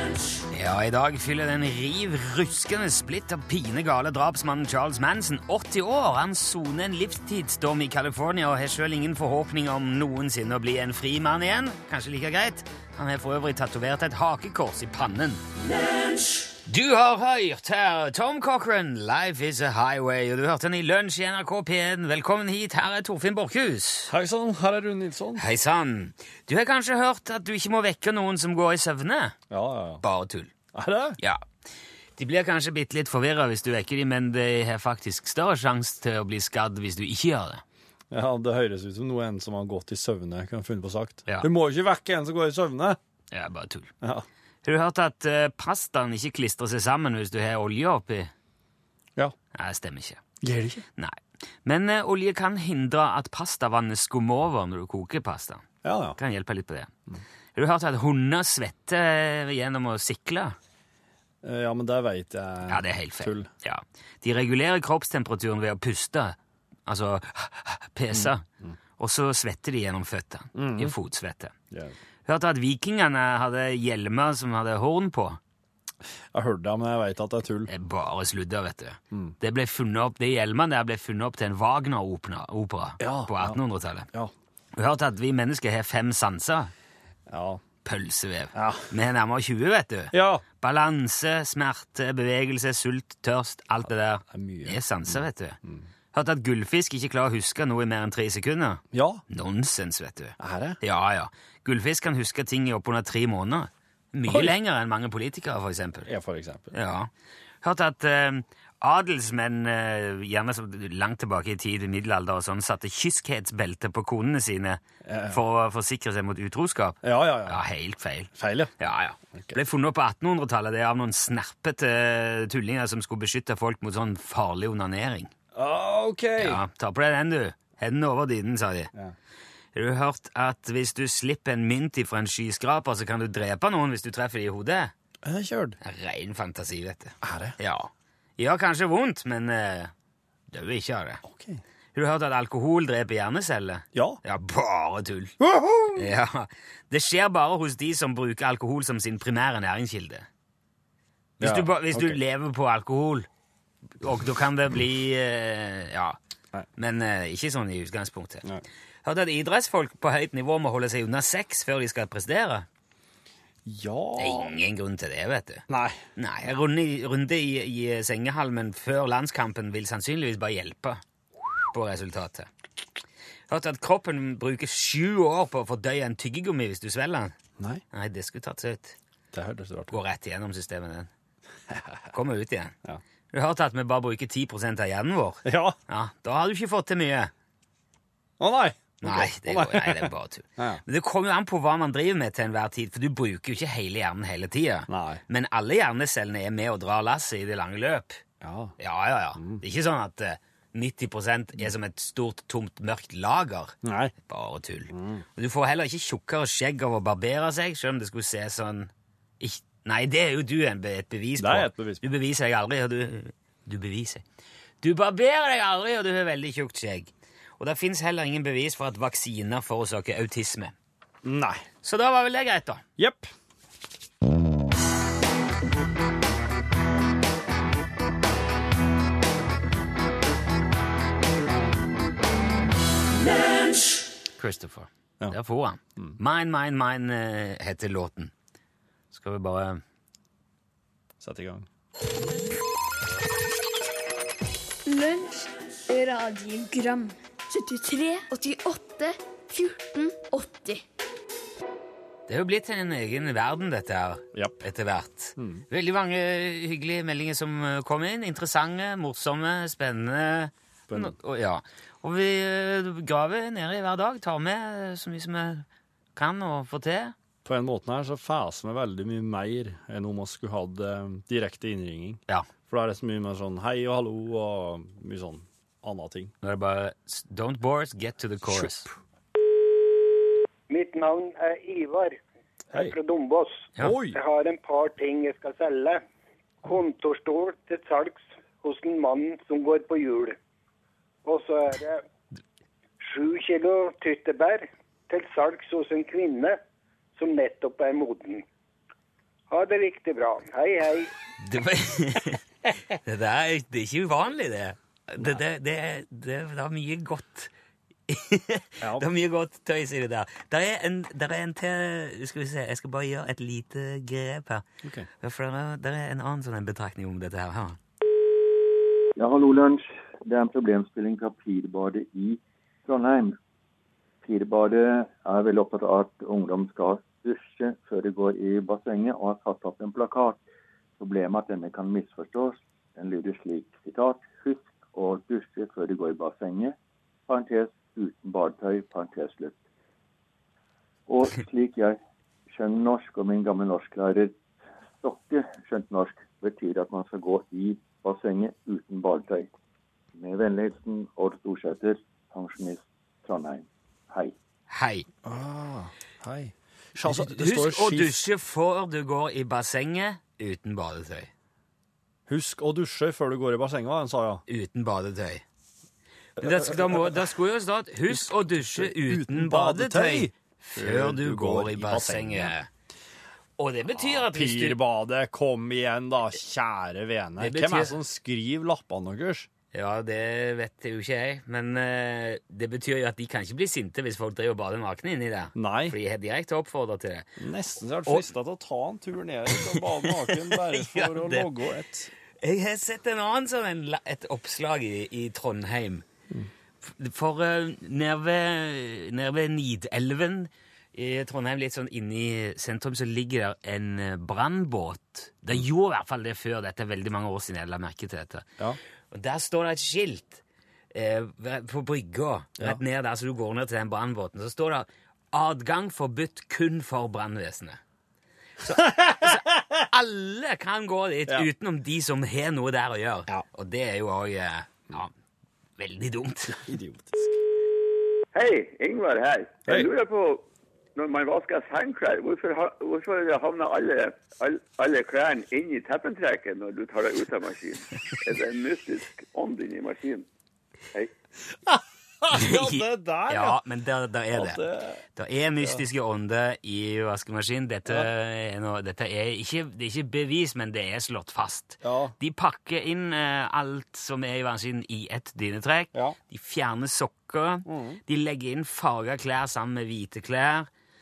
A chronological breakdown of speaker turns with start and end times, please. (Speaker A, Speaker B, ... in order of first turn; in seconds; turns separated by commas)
Speaker A: 0.5-15.4, Speaker A: 16.7-24.1, Speaker B: 24.1-25.4, Speaker A: 25.4-29.4, Speaker B: 29.5-30.0, Speaker A: 30.0-30.5, Speaker B: 30.7-31.2, Speaker A: 32.2-37.6, Speaker B: 38.1-43.0, Speaker A: 43.3-43.9, Speaker A: 44.6-48.3, Speaker A: 49.5-50.2, Speaker B: 50.4-50.9, Speaker A: 51.0-55.6, Speaker B: 55.8-56.2, Speaker A: 56.2-56.9, Speaker A: 57.5-60.6, Speaker B: 61.4-63.5, Speaker A: 62.7-66.4, Speaker A: 66.9-68.4, Speaker B: 68.1-68.8, Speaker A: 69.0-71.5, Speaker B: 70.5-70.9, Speaker A: 72.3-75.4, Speaker B: 76.3-77.7, Speaker A: 77.7-84.1, Speaker B: 83.0-83.6, Speaker A: 84.8-86.7, Speaker B: 87.3-87.6, Speaker A: 87.8-95.6, Speaker B: 88.5-88.9, Speaker B: 90.1-90.4, Speaker B: 94.3-95.8, Speaker A: 96.1-106.1, Speaker B: 98.9-99.2, Speaker B: 100.4-100.8, Speaker B: 104.3-104.5, Speaker B: 106.1-106.7, Speaker A: 106.7-107.1, Speaker A: 107.6-125.3, Speaker B: 115.0-115.4, Speaker B: 117.0-117.6, Speaker B: 118.4-118.7, Speaker B: 125.5-126.6, Speaker A: 126.4-128.9, Speaker A: 129.8-134.9, Speaker B: 135.2-135.8, Speaker A: 135.8-139.9, Speaker B: 137.2-137.6, Speaker A: 140.5-141.2, Speaker B: 141.2-141.6, Speaker A: 141.9-145.3, Speaker B: 143.9-144.2, Speaker B: 145.4-146.1, Speaker A: 145.9-150.3, Speaker B: 151.4-152.2, Speaker A: 151.4-153.3, Speaker A: 154.0-156.2, Speaker A: 156.8-158.4, Speaker A: 159.1-162.7, Speaker B: 163.7-164.5, Speaker A: 164.2-165.7, Speaker B: 165.7-166.0, Speaker A: 166.2-171.0, Speaker A: 171.7-172.5, Speaker A: 173.5-177.3, Speaker A: 177.9-178.9, Speaker B: 179.3-180.0, Speaker A: 179.9-181.1, Speaker B: 181.7-182.0, Speaker A: 182.1-182.7, Speaker A: 183.3-187.3, Speaker B: 185.4-185.8, Speaker B: 188.4-190.8, Speaker A: 189.0-198.2, Speaker B: 194.9-195.2, Speaker B: 198.4-198.7, Speaker A: 198.8-203.8, Speaker B: 203.8-204.1, Speaker A: 204.3-214.2, Speaker B: 204.9-205.2, Speaker B: 211.4-212.0, Speaker A: 214.8-220.8, Speaker B: 221.2-221.6, Speaker A: 221.8-222.8, Speaker B: 223.0-223.3, Speaker A: 234.4-238.3, Speaker A: 239.1-239.8, Speaker B: 241.2-241.7, Speaker C: 244.9-250.8, Speaker A: 252.3-267.1, Speaker B: 254.3-254.6, Speaker B: 255.4-255.7, Speaker B: 260.9-261.1, Speaker B: 267.4-276.3, Speaker A: 276.4-278.9, Speaker B: 278.5-278.9, Speaker D: 280.7-282.2, Speaker D: 282.8-286.0, Speaker B: 283.8-284.2, Speaker D: 286.6-290.4, Speaker D: 291.2-292.0, Speaker D: 293.0-296.6, Speaker D: 297.2-298.4, Speaker D: 299.5-301.1, Speaker A: 301.4-302.4, Speaker A: 303.1-307.5, Speaker A: 308.1-314.7, Speaker B: 314.8-315.1, Speaker A: 315.2-317.8, Speaker E: 319.2-323.4, Speaker E: 324.2-330.4, Speaker E: 331.0-336.8, Speaker E: 337.3-339.6, Speaker E: 341.1-342.0, Speaker E: 342.5-344.4, Speaker E: 345.0-349.5, Speaker E: 350.2-354.4, Speaker A: 354.7-355.1, Speaker B: 355.2-358.2, Speaker A: 357.1-361.3, Speaker B: 362.3-364.4, Speaker A: 364.5-365.4, Speaker A: 366.4-372.7, Speaker B: 366.4-367.2, Speaker B: 368.1-372.5, Speaker A: 373.6-374.8, Speaker B: 373.9-379.5, Speaker A: 377.4-378.0, Speaker A: 379.7-387.3, Speaker B: 385.6-386.0, Speaker B: 387.4-392.1, Speaker A: 388.1-388.3, Speaker A: 389.6-391.5, Speaker A: 392.4-396.0, Speaker A: 396.9-408.5, Speaker A: 409.1-410.4, Speaker A: 410.9-417.8, Speaker A: 418.6-425.1, Speaker B: 418.7-419.8, Speaker A: 425.8-426.6, Speaker B: 426.6-427.3, Speaker F: 428.3-440.3, Speaker B: 441.7-443.6, Speaker A: 442.3-460.7, Speaker B: 444.3-445.0, Speaker B: 451.8-452.1, Speaker B: 457.7-458.0